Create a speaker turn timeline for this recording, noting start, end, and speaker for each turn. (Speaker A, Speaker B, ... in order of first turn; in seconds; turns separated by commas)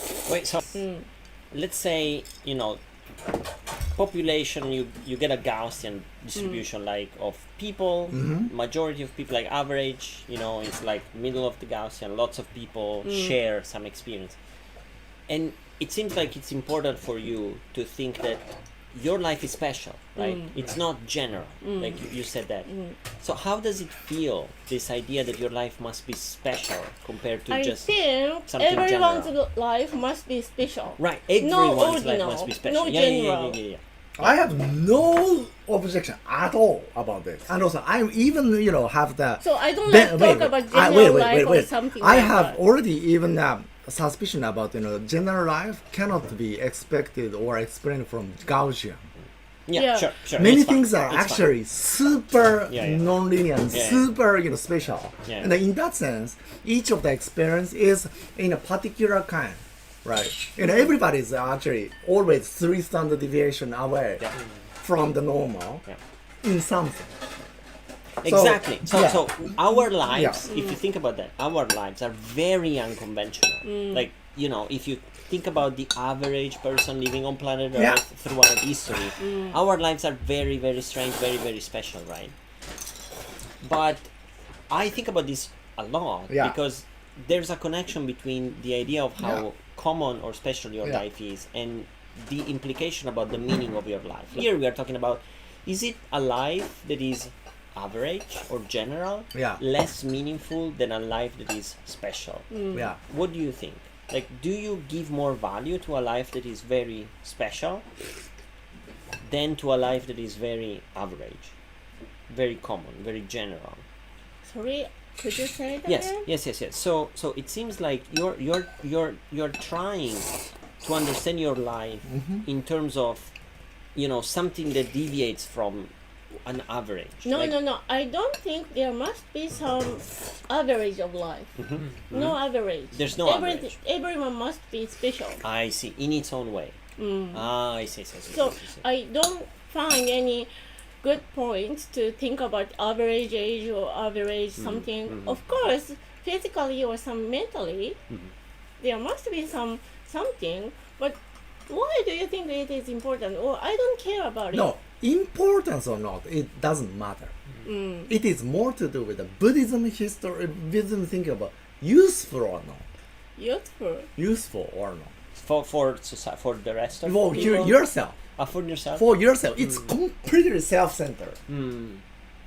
Speaker A: 0.2-0.8, Speaker B: 0.7-1.1, Speaker A: 1.5-2.8, Speaker A: 3.9-14.3, Speaker C: 8.1-8.5, Speaker B: 13.0-13.3, Speaker A: 15.3-22.7, Speaker B: 20.2-20.5, Speaker B: 21.6-22.0, Speaker B: 22.7-22.9, Speaker A: 23.2-29.3, Speaker B: 27.5-33.6, Speaker A: 31.0-34.3, Speaker C: 34.2-49.0, Speaker B: 39.4-42.6, Speaker A: 49.7-51.5, Speaker B: 49.7-50.1, Speaker C: 50.4-64.3, Speaker A: 52.7-53.1, Speaker A: 53.7-54.1, Speaker A: 55.2-55.5, Speaker C: 64.8-65.8, Speaker C: 66.4-67.1, Speaker A: 68.2-82.3, Speaker C: 68.2-69.3, Speaker C: 70.1-70.4, Speaker B: 70.4-70.8, Speaker B: 73.6-74.1, Speaker C: 77.7-78.0, Speaker B: 79.2-79.6, Speaker A: 83.6-84.1, Speaker A: 84.7-102.5, Speaker C: 86.3-86.6, Speaker C: 99.3-99.6, Speaker B: 102.5-102.9, Speaker A: 103.1-107.8, Speaker A: 109.2-111.5, Speaker A: 112.3-113.8, Speaker B: 114.4-116.2, Speaker A: 115.9-123.3, Speaker C: 122.1-122.4, Speaker A: 123.9-125.9, Speaker A: 126.4-127.6, Speaker B: 127.2-131.5, Speaker A: 131.6-132.4, Speaker B: 132.1-135.4, Speaker A: 132.9-133.7, Speaker A: 135.4-136.8, Speaker B: 137.0-137.5, Speaker A: 137.3-138.8, Speaker B: 138.3-140.5, Speaker B: 141.0-148.0, Speaker A: 144.6-145.7, Speaker B: 148.8-154.7, Speaker C: 154.5-157.3, Speaker B: 157.6-158.1, Speaker C: 158.1-162.8, Speaker B: 163.3-164.1, Speaker C: 164.2-165.1, Speaker A: 165.3-167.8, Speaker C: 167.0-168.2, Speaker B: 167.3-167.6, Speaker A: 168.3-169.9, Speaker C: 168.9-171.4, Speaker A: 171.5-172.0